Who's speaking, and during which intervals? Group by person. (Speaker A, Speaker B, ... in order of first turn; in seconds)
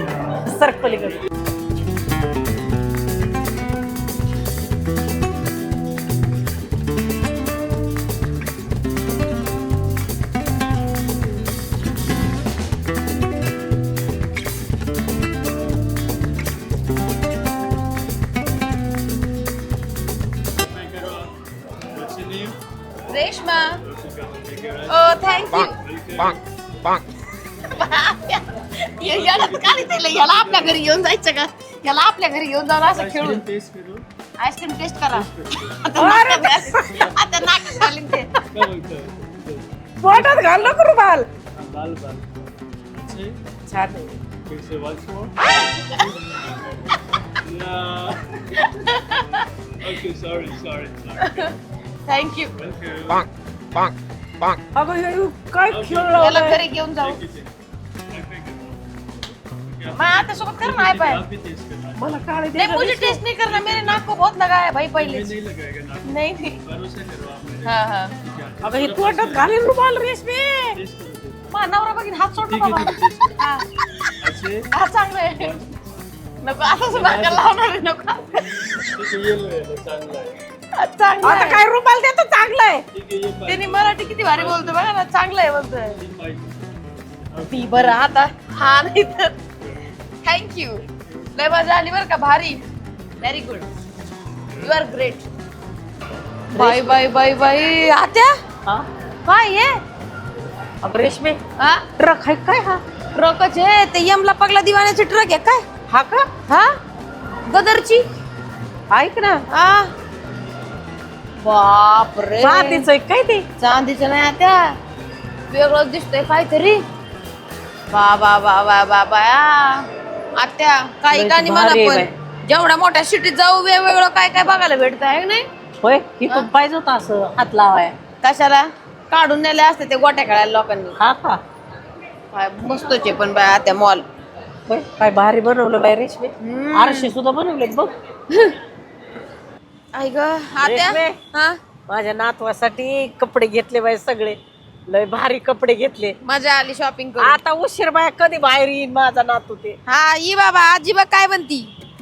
Speaker A: 0.5-1.2, 36.0-37.0, 40.0-41.3, 43.7-44.1, 54.8-56.6, 62.0-63.2, 68.6-70.8, 81.2-82.8, 96.5-97.0, 100.8-101.4, 102.0-102.8, 105.9-106.3, 108.9-109.4, 112.4-113.5, 121.1-122.1, 125.8-128.0, 130.9-131.4, 134.7-137.9, 140.6-141.2, 141.9-146.2, 147.2-149.8
Speaker B: 20.6-21.3, 21.9-22.6, 23.8-27.0, 29.0-30.9, 32.9-34.1, 35.0-35.9, 36.9-37.2, 38.5-40.8, 41.6-42.4, 42.9-43.4, 44.5-46.3, 47.4-51.6, 52.6-53.3, 55.6-57.5, 58.1-62.4, 63.4-64.1, 64.9-69.7, 70.7-71.5, 72.5-73.4, 74.2-74.7, 75.3-75.9, 76.8-77.5, 78.9-80.4, 82.9-84.8, 85.9-86.6, 87.3-88.1, 89.6-89.9, 90.9-91.5, 94.5-95.0
Speaker C: 23.1-23.8, 24.9-25.7, 27.7-33.4, 34.4-38.3, 48.6-49.4, 51.2-51.5, 52.1-52.5, 56.1-57.2, 60.0-61.2, 62.6-65.3, 66.1-66.6, 67.6-68.1, 71.5-73.7, 74.7-75.5, 76.4-78.9, 80.8-81.7, 83.5-86.0, 87.5-89.3, 90.2-90.8, 91.4-92.6, 93.2-93.7, 94.6-95.3, 96.5-98.3, 99.2-99.8, 101.6-101.9, 103.1-105.6, 107.5-108.0, 109.5-109.9, 111.4-112.9, 113.6-114.8, 115.5-116.8, 117.9-119.9, 120.4-125.5, 128.2-131.0, 132.3-134.1, 136.4-137.1, 139.9-141.6, 146.2-147.4, 149.9-151.7